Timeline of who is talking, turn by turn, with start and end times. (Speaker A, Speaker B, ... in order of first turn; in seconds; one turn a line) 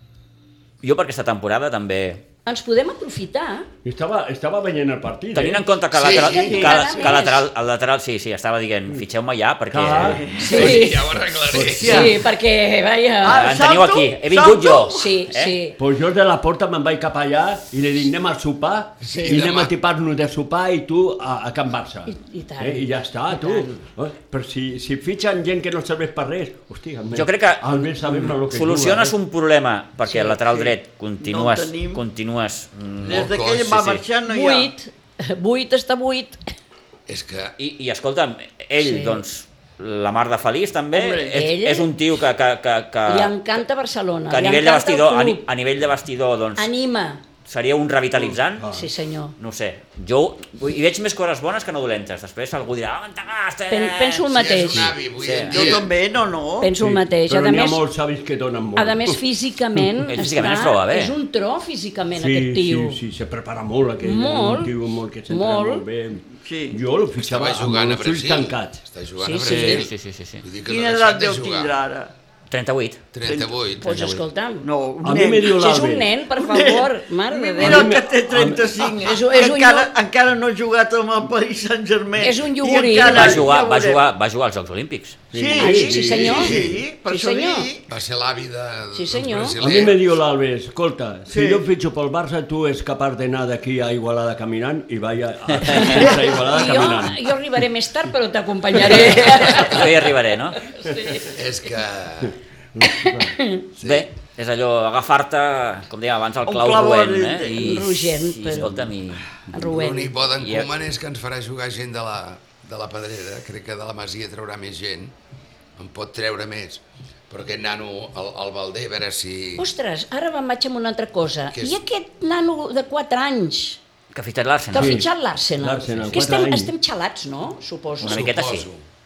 Speaker A: 0.8-2.2
Speaker B: 2.5-3.7
Speaker C: 3.8-5.7
Speaker A: 5.3-10.3
Speaker D: 5.9-6.8
Speaker B: 6.1-7.5
Speaker C: 9.7-12.2
Speaker E: 10.2-10.7
Speaker B: 10.4-11.1
Speaker D: 10.4-12.1
Speaker E: 11.6-12.2
Speaker B: 11.8-13.6
Speaker E: 13.2-15.1
Speaker A: 13.2-15.6
Speaker B: 14.9-15.8
Speaker C: 15.8-29.2
Speaker D: 19.0-19.7
Speaker B: 22.1-23.8
Speaker A: 27.1-33.3
Speaker E: 30.1-32.0
Speaker E: 33.0-34.7
Speaker D: 33.1-34.0
Speaker B: 34.3-36.4
Speaker D: 37.1-37.5
Speaker A: 37.6-43.4
Speaker B: 38.8-39.2
Speaker B: 40.9-41.9
Speaker B: 43.1-45.4
Speaker A: 44.3-46.7
Speaker B: 46.6-47.2
Speaker A: 47.5-48.7
Speaker C: 48.6-48.9
Speaker B: 48.7-49.4
Speaker A: 49.4-55.8
Speaker B: 53.7-54.9
Speaker D: 54.3-55.9
Speaker E: 55.5-56.7
Speaker B: 56.6-57.8
Speaker C: 56.8-59.2
Speaker B: 58.8-63.0
Speaker A: 60.1-61.2
Speaker C: 62.2-68.8
Speaker B: 64.0-64.7
Speaker B: 65.3-65.8
Speaker E: 66.4-66.8
Speaker D: 67.2-71.7
Speaker B: 69.2-69.9
Speaker A: 69.4-70.5
Speaker E: 70.7-72.1
Speaker A: 72.5-73.0
Speaker D: 73.1-74.1
Speaker E: 73.3-73.5
Speaker B: 73.8-74.7
Speaker A: 73.8-74.2
Speaker E: 74.6-75.7
Speaker C: 75.0-76.2
Speaker B: 75.5-78.0
Speaker E: 76.3-84.0
Speaker C: 77.6-78.9
Speaker B: 79.0-79.9
Speaker B: 82.2-83.5
Speaker A: 83.0-85.2
Speaker C: 85.3-86.8
Speaker E: 85.3-87.8
Speaker B: 85.6-87.7
Speaker D: 86.1-86.7
Speaker D: 87.9-90.1
Speaker B: 88.9-89.6
Speaker C: 89.6-97.3
Speaker E: 91.3-91.6
Speaker A: 95.6-96.0
Speaker B: 95.7-101.4
Speaker A: 99.2-100.6
Speaker D: 101.2-102.4
Speaker C: 102.8-103.4
Speaker B: 102.8-103.7
Speaker A: 103.8-109.5
Speaker D: 103.8-104.0
Speaker E: 106.5-107.8
Speaker B: 107.6-108.9
Speaker B: 109.5-110.1
Speaker D: 109.5-115.1
Speaker A: 110.4-110.7
Speaker D: 115.8-119.7
Speaker B: 119.6-123.8
Speaker A: 124.1-125.1
Speaker B: 124.7-128.3
Speaker C: 124.8-126.7
Speaker A: 128.0-128.7
Speaker D: 128.0-128.8